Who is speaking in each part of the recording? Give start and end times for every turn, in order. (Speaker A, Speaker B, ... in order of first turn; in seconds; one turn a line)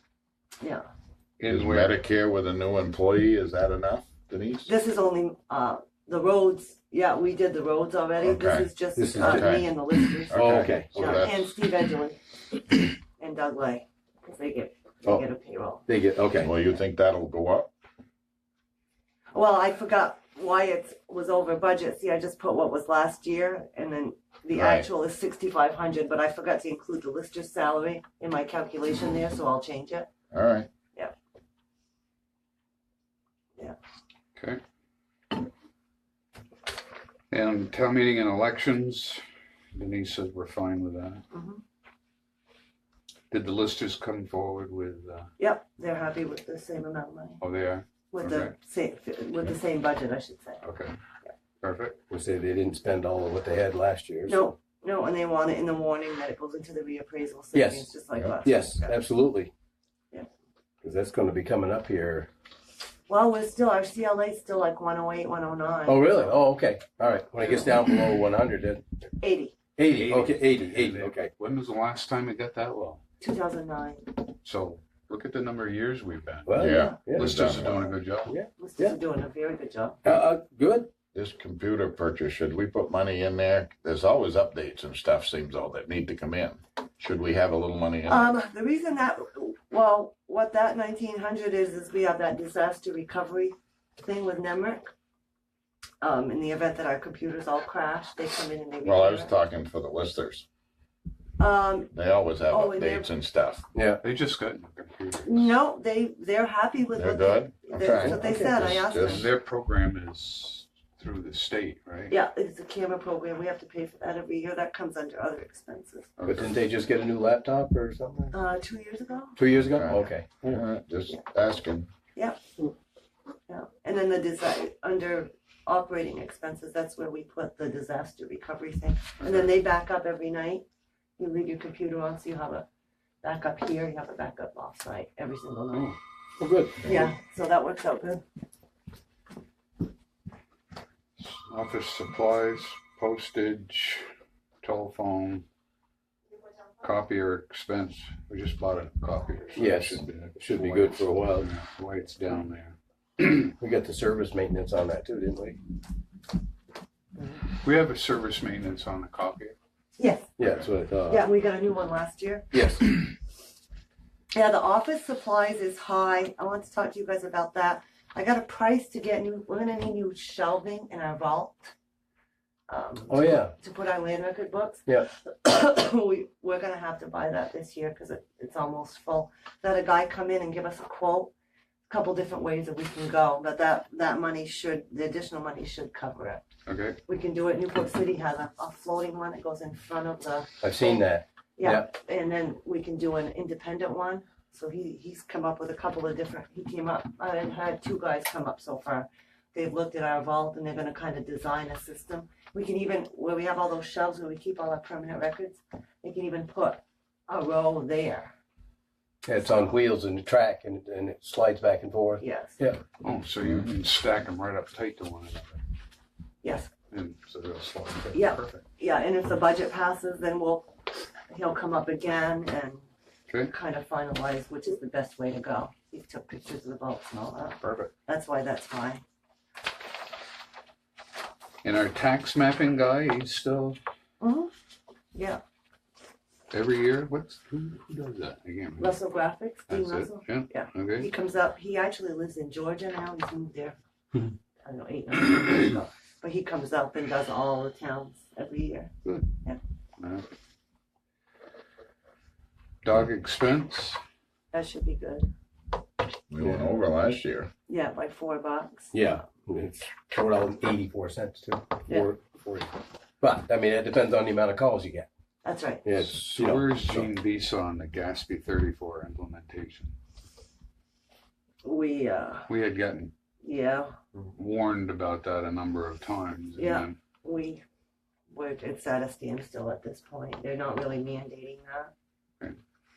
Speaker A: 1.4-2.0
Speaker B: 1.5-4.7
Speaker C: 4.7-12.3
Speaker B: 8.2-9.7
Speaker D: 8.9-9.5
Speaker D: 10.3-11.3
Speaker B: 10.3-11.6
Speaker C: 13.2-15.8
Speaker D: 15.9-16.5
Speaker B: 16.4-17.7
Speaker C: 19.3-30.1
Speaker B: 24.5-24.9
Speaker B: 30.3-30.7
Speaker A: 37.3-39.2
Speaker A: 39.7-41.2
Speaker C: 41.3-41.6
Speaker A: 43.3-45.3
Speaker C: 45.4-47.4
Speaker A: 47.4-48.5
Speaker C: 48.1-50.6
Speaker A: 50.6-50.9
Speaker A: 51.6-52.0
Speaker D: 52.1-54.5
Speaker C: 54.3-59.0
Speaker D: 57.5-57.9
Speaker D: 58.4-59.5
Speaker D: 60.8-62.3
Speaker C: 63.1-66.3
Speaker D: 65.8-68.8
Speaker C: 69.2-69.6
Speaker D: 69.8-71.3
Speaker A: 69.8-73.0
Speaker C: 73.2-74.1
Speaker A: 74.4-78.3
Speaker D: 76.5-77.5
Speaker B: 76.6-77.9
Speaker D: 78.2-79.0
Speaker C: 78.6-80.0
Speaker D: 80.0-80.9
Speaker B: 81.1-88.3
Speaker C: 88.0-94.9
Speaker C: 96.0-99.3
Speaker B: 98.8-100.4
Speaker C: 101.4-101.9
Speaker B: 101.9-103.6
Speaker C: 102.5-103.1
Speaker D: 103.7-104.0
Speaker A: 104.0-105.5
Speaker C: 105.2-109.3
Speaker B: 106.9-109.3
Speaker D: 107.9-108.8
Speaker A: 108.9-112.1
Speaker C: 112.1-116.1
Speaker A: 116.2-116.6
Speaker D: 116.2-118.3
Speaker C: 118.3-119.4
Speaker D: 119.3-120.6
Speaker B: 119.6-121.9
Speaker C: 123.5-130.6
Speaker A: 129.2-129.5
Speaker C: 131.2-132.6
Speaker C: 133.2-135.9
Speaker A: 135.7-136.0
Speaker D: 136.4-137.0
Speaker C: 136.8-138.2
Speaker A: 141.2-144.1
Speaker A: 144.6-145.4
Speaker A: 146.8-153.5
Speaker D: 149.6-151.5
Speaker D: 153.6-155.6
Speaker A: 157.6-159.5
Speaker C: 160.0-160.3
Speaker D: 160.4-161.3
Speaker C: 161.1-162.5
Speaker D: 162.5-162.9
Speaker C: 164.3-171.7
Speaker C: 172.7-181.3
Speaker D: 173.1-173.5
Speaker C: 181.9-186.4
Speaker A: 186.7-187.0
Speaker C: 187.0-191.0
Speaker D: 190.6-191.9
Speaker C: 191.6-208.3
Speaker D: 209.2-212.8
Speaker C: 212.2-212.6
Speaker A: 213.0-215.6
Speaker C: 216.4-216.7
Speaker A: 216.9-218.6
Speaker C: 218.1-220.7
Speaker C: 221.3-222.9
Speaker C: 223.5-229.0
Speaker A: 227.6-227.9
Speaker A: 231.6-233.8
Speaker C: 234.2-234.5
Speaker C: 235.1-235.4
Speaker A: 236.5-239.0
Speaker C: 238.8-243.8
Speaker A: 239.7-241.1
Speaker C: 244.6-248.9
Speaker A: 249.0-249.3
Speaker A: 250.0-250.2
Speaker A: 252.8-254.0
Speaker C: 254.5-255.3
Speaker B: 256.3-257.5
Speaker D: 256.4-256.8
Speaker C: 257.7-259.1
Speaker D: 258.9-265.1
Speaker C: 265.4-265.9
Speaker D: 265.8-267.1
Speaker A: 265.9-269.9
Speaker C: 271.6-272.5
Speaker A: 272.5-273.1
Speaker C: 273.4-273.9
Speaker A: 274.3-276.9
Speaker C: 276.6-277.6
Speaker C: 278.3-281.9